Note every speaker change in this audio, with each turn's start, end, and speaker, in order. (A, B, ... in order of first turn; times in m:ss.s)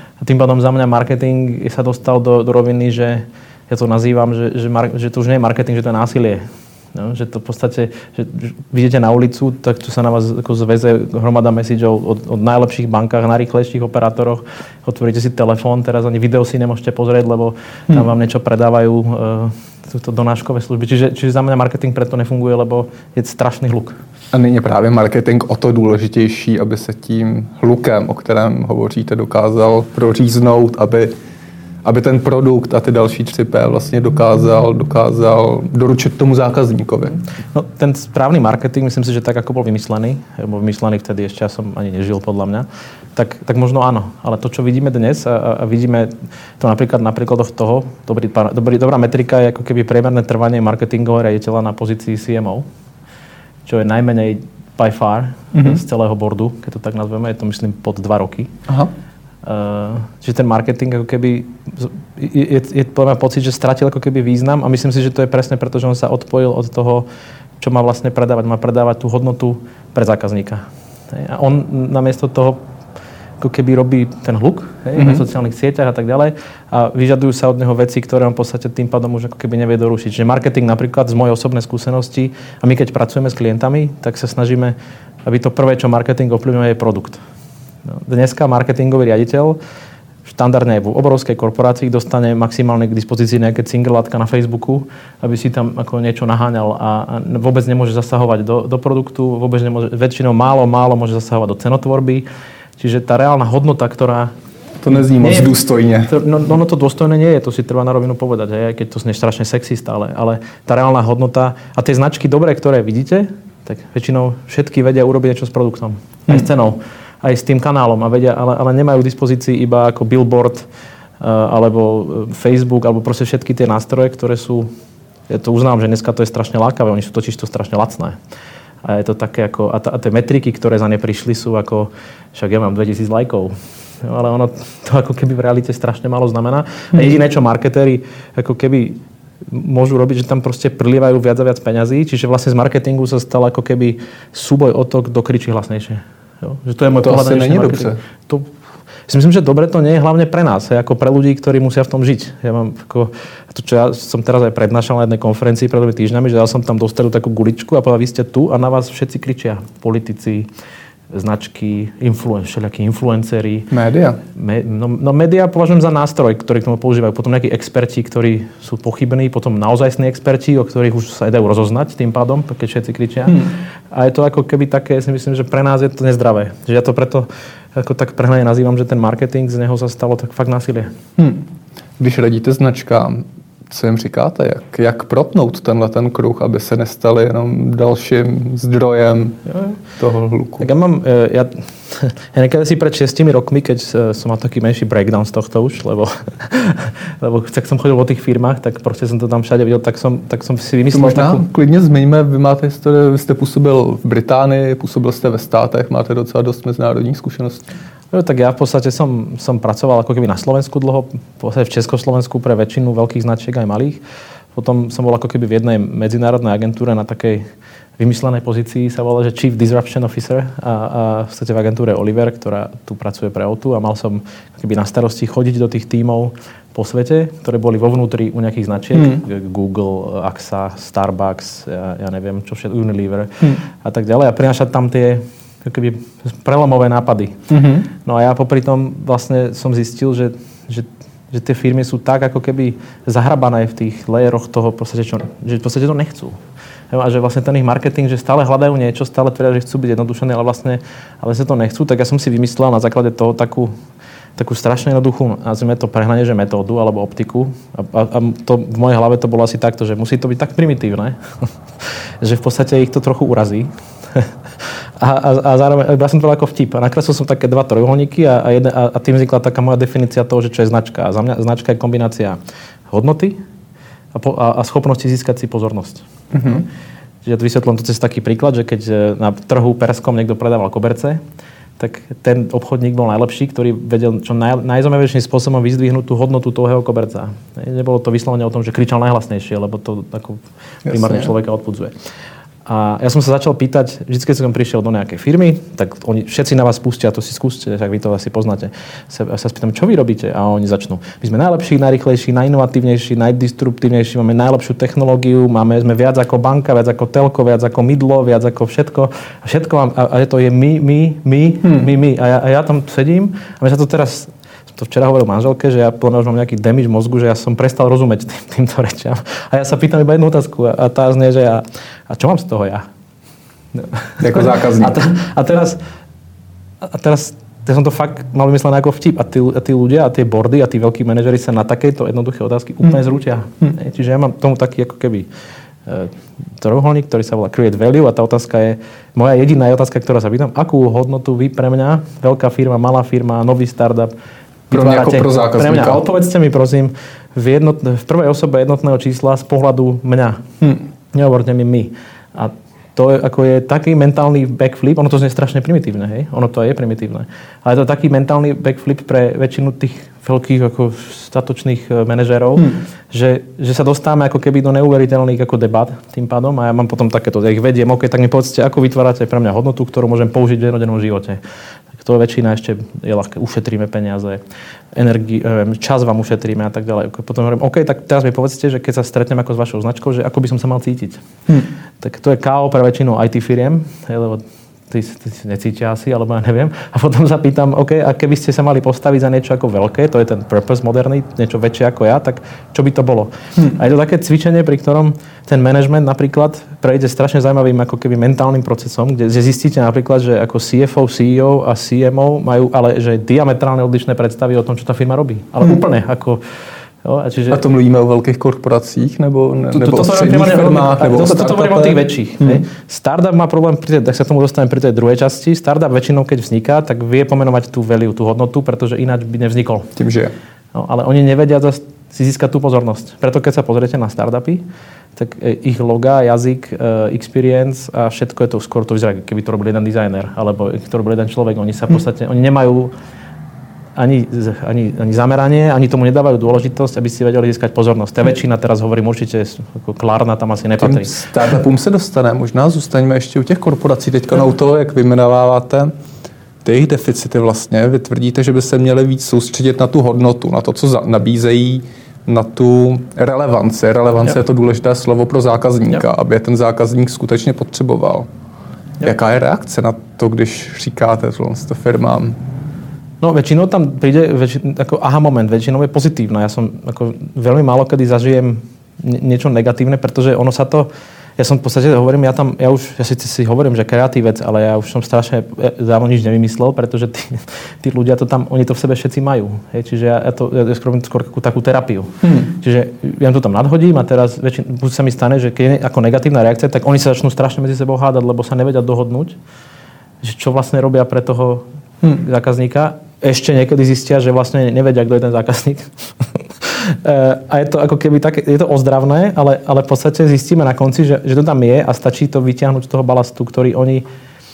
0:00.2-0:24.0 A
0:24.3-0:31.1 B
0:31.8-0:37.2 B
0:37.5-0:52.6 A
0:53.7-0:58.5 A
0:55.5-0:55.8 B
0:59.4-1:07.1 A
1:07.6-1:12.6 A
1:13.4-1:27.2 A
1:15.0-1:15.2 B
1:27.9-1:29.6 A
1:30.3-1:42.2 A
1:42.8-1:44.3 A
1:44.8-1:46.1 B
1:45.2-1:45.6 A
1:46.1-2:00.7 A
2:01.2-2:04.7 A
2:05.3-2:08.2 A
2:08.8-2:28.5 A
2:27.0-2:28.0 B
2:29.1-2:40.5 A
2:41.1-2:43.7 A
2:43.7-2:44.2 B
2:44.4-3:00.9 A
3:01.2-3:01.4 B
3:02.0-3:09.4 B
3:10.0-3:10.7 B
3:10.6-3:21.5 A
3:20.9-3:27.6 B
3:28.1-3:34.0 A
3:34.6-3:37.5 A
3:38.0-4:06.4 A
3:49.0-3:49.2 B
3:57.5-3:57.9 B
4:06.9-4:13.7 A
4:14.4-4:21.5 A
4:22.2-4:24.3 A
4:25.0-4:32.4 A
4:32.9-4:33.4 A
4:34.1-4:36.6 A
4:36.3-4:36.7 B
4:37.2-4:41.2 A
4:41.8-4:51.9 A
4:50.9-4:51.3 B
4:52.7-5:22.9 A
5:11.6-5:11.9 B
5:23.7-5:25.8 A
5:24.2-5:25.0 B
5:26.8-5:35.3 A
5:35.9-5:44.1 A
5:44.7-5:50.4 A
5:44.7-5:46.0 B
5:51.1-6:11.4 A
6:12.0-6:14.4 A
6:14.9-6:21.2 A
6:22.0-6:46.4 A
6:47.0-6:47.6 A
6:47.5-6:52.6 B
6:49.7-6:59.9 A
7:00.0-7:00.3 B
7:00.8-7:04.6 A
7:05.2-7:12.9 A
7:14.0-7:21.3 A
7:20.8-7:25.9 B
7:26.6-7:38.3 B
7:39.0-7:42.4 B
7:43.2-8:09.4 A
8:10.2-8:24.0 A